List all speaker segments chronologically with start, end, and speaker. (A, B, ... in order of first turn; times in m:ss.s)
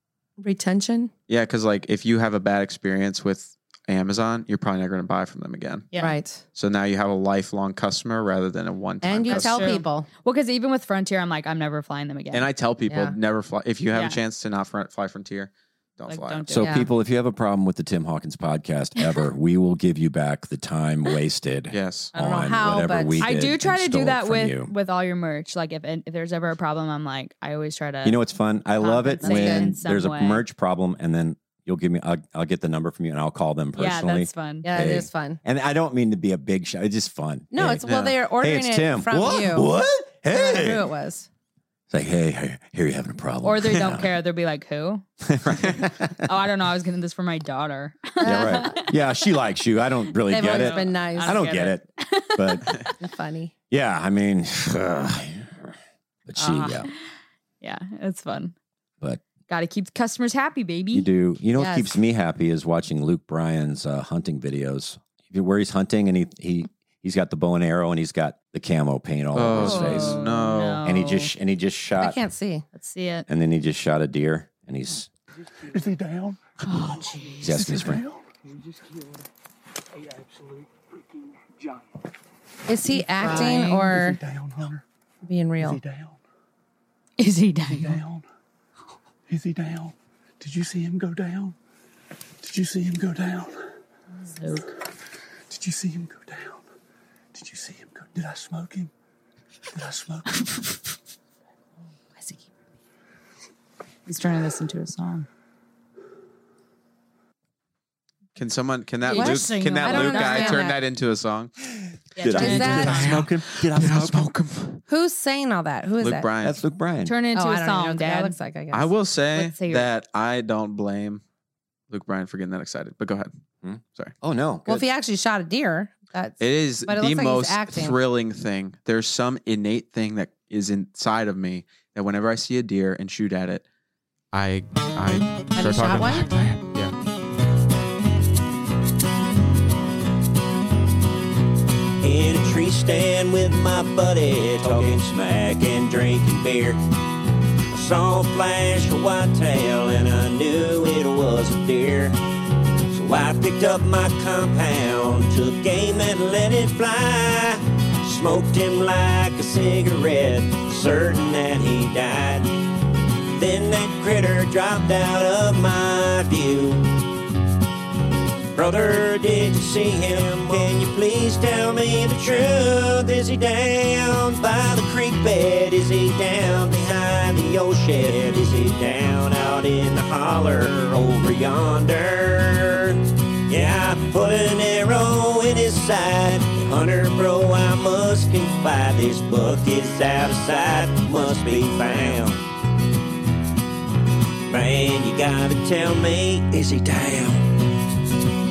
0:00.4-0:01.1 A
0:01.3-0:05.9 B
0:05.9-0:06.2 C
0:06.0-0:06.4 A
0:06.6-0:09.7 B
0:09.0-0:10.1 A
0:09.3-0:12.4 C
0:12.3-0:16.4 B
0:12.9-0:13.2 A
0:13.9-0:14.2 C
0:16.1-0:16.7 C
0:16.5-0:24.7 D
0:16.6-0:16.9 A
0:21.7-0:22.1 B
0:22.2-0:23.4 A
0:23.2-0:28.2 C
0:28.0-0:40.9 D
0:28.8-0:30.4 C
0:29.2-0:29.7 A
0:33.8-0:34.7 C
0:34.6-0:35.4 A
0:37.5-0:39.7 A
0:37.8-0:38.2 B
0:40.3-0:41.3 A
0:41.9-0:44.1 D
0:43.4-0:45.1 C
0:45.3-0:46.2 D
0:45.7-0:48.9 C
0:48.2-0:48.8 A
0:48.2-0:52.8 D
0:50.3-0:51.6 A
0:50.4-0:53.0 C
0:53.0-0:53.5 A
0:53.7-0:55.7 D
0:56.3-0:56.9 D
0:56.4-0:57.0 C
0:57.6-0:58.5 C
0:59.5-1:01.1 C
1:00.9-1:10.2 D
1:01.6-1:01.9 A
1:09.3-1:10.8 B
1:09.6-1:11.3 C
1:10.8-1:12.2 D
1:12.0-1:12.6 A
1:12.7-1:13.3 C
1:13.3-1:15.1 D
1:15.6-1:19.2 E
1:16.6-1:17.5 C
1:17.4-1:18.0 D
1:20.0-1:20.7 E
1:21.4-1:21.8 E
1:22.7-1:24.2 A
1:22.9-1:23.9 C
1:23.2-1:24.8 E
1:25.3-1:25.8 A
1:25.6-1:26.2 E
1:27.2-1:28.0 C
1:27.7-1:28.3 E
1:29.3-1:31.6 E
1:32.4-1:33.6 E
1:34.2-1:34.7 C
1:35.5-1:36.7 E
1:37.3-1:38.9 E
1:39.7-1:40.4 E
1:40.3-1:40.7 C
1:42.2-1:42.5 C
1:44.1-1:45.3 C
1:48.4-1:51.5 B
1:49.1-1:50.7 C
1:49.1-1:50.8 A
1:52.2-1:53.1 C
1:52.2-1:54.3 D
1:52.3-1:53.3 A
1:52.5-1:54.8 B
1:54.9-1:56.3 A
1:56.0-1:56.6 B
1:56.4-1:57.1 D
1:57.0-1:58.4 C
1:57.3-1:58.9 A
1:58.7-2:01.2 B
1:59.3-1:59.9 C
2:01.9-2:03.3 B
2:03.6-2:04.8 D
2:04.7-2:08.0 A
2:06.4-2:13.6 B
2:14.3-2:16.9 B
2:15.6-2:16.3 A
2:22.0-2:26.8 F
2:27.7-2:32.2 F
2:32.9-2:42.5 F
2:43.4-2:46.9 F
2:48.5-3:12.4 F
3:14.5-3:17.3 F